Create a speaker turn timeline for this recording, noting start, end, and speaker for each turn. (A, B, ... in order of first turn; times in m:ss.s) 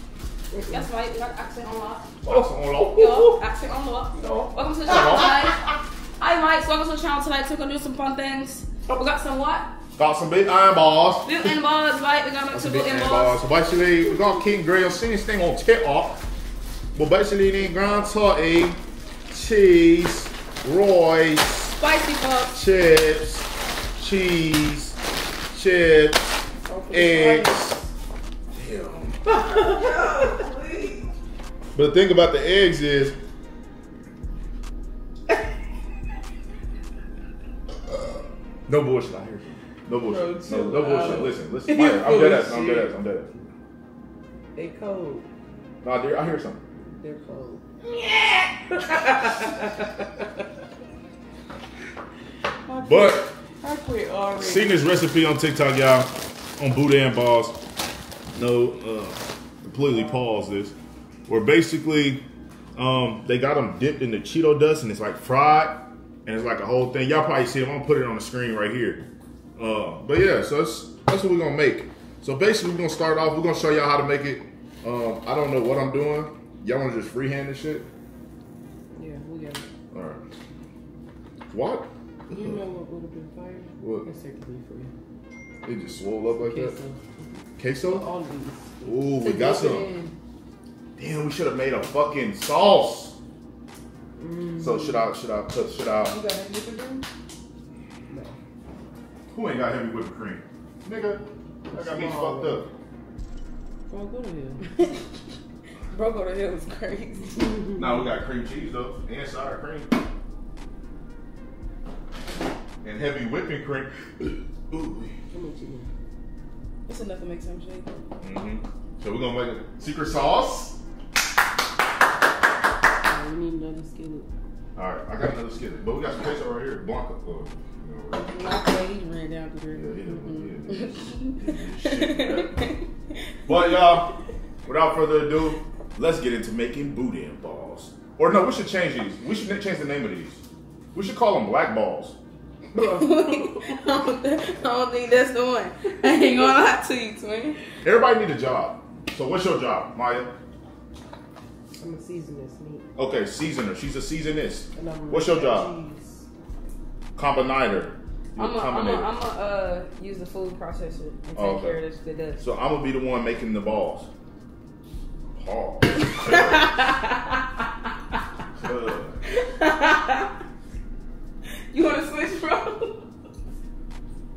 0:00.5-0:00.8 A
0:00.6-0:02.3 B
0:02.2-0:03.3 C
0:02.3-0:03.4 A
0:02.8-0:05.6 B
0:04.2-0:04.5 A
0:04.8-0:05.5 C
0:06.2-0:09.7 B
0:10.0-0:11.5 C
0:11.2-0:13.4 B
0:12.5-0:16.2 C
0:16.9-0:18.8 C
0:19.3-0:21.7 C
0:21.7-0:22.6 B
0:22.5-0:23.5 C
0:24.0-0:25.0 C
0:25.5-0:26.2 C
0:26.6-0:27.8 A
0:26.9-0:27.8 C
0:28.5-0:29.2 C
0:29.2-0:30.3 B
0:29.3-0:31.1 A
0:31.7-0:33.2 C
0:38.7-0:43.3 C
0:40.0-0:42.9 A
0:40.8-0:41.2 B
0:44.5-0:45.3 A
0:45.8-0:46.6 C
0:46.8-0:50.2 A
0:52.6-0:54.8 A
0:52.8-0:53.3 C
0:54.4-0:57.6 C
0:58.3-1:00.7 C
1:01.3-1:02.2 C
1:02.8-1:09.0 C
1:09.6-1:17.9 C
1:18.9-1:19.7 A
1:19.9-1:20.2 C
1:21.5-1:22.6 C
1:22.3-1:24.9 A
1:23.8-1:24.0 C
1:25.6-1:26.8 C
1:26.4-1:29.1 A
1:27.6-1:28.0 C
1:28.8-1:29.9 C
1:29.2-1:30.1 B
1:31.0-1:33.2 C
1:34.2-1:35.1 A
1:34.6-1:36.2 C
1:36.1-1:37.0 A
1:38.1-1:38.4 A
1:39.3-1:42.7 C
1:41.7-1:42.7 A
1:43.9-1:44.6 A
1:45.9-1:47.6 B
1:47.8-1:49.9 C
1:52.8-1:55.2 C
1:55.3-1:55.9 A
1:56.9-1:58.0 B
1:58.2-2:00.8 C
2:03.0-2:04.3 A
2:04.8-2:08.3 C
2:08.2-2:12.8 B
2:09.7-2:12.7 C
2:13.4-2:14.1 C
2:14.6-2:20.4 C
2:20.9-2:22.2 C
2:22.7-2:27.6 B
2:22.8-2:23.6 A
2:27.8-2:30.3 C
2:31.7-2:32.8 A
2:33.0-2:35.7 C
2:34.7-2:36.2 A
2:37.2-2:39.1 C
2:38.4-2:42.4 B
2:41.3-2:41.8 C
2:42.4-2:44.1 C
2:45.3-2:46.7 C
2:46.2-2:47.3 B
2:48.6-2:49.2 C
2:49.3-2:50.3 B
2:51.7-2:53.1 B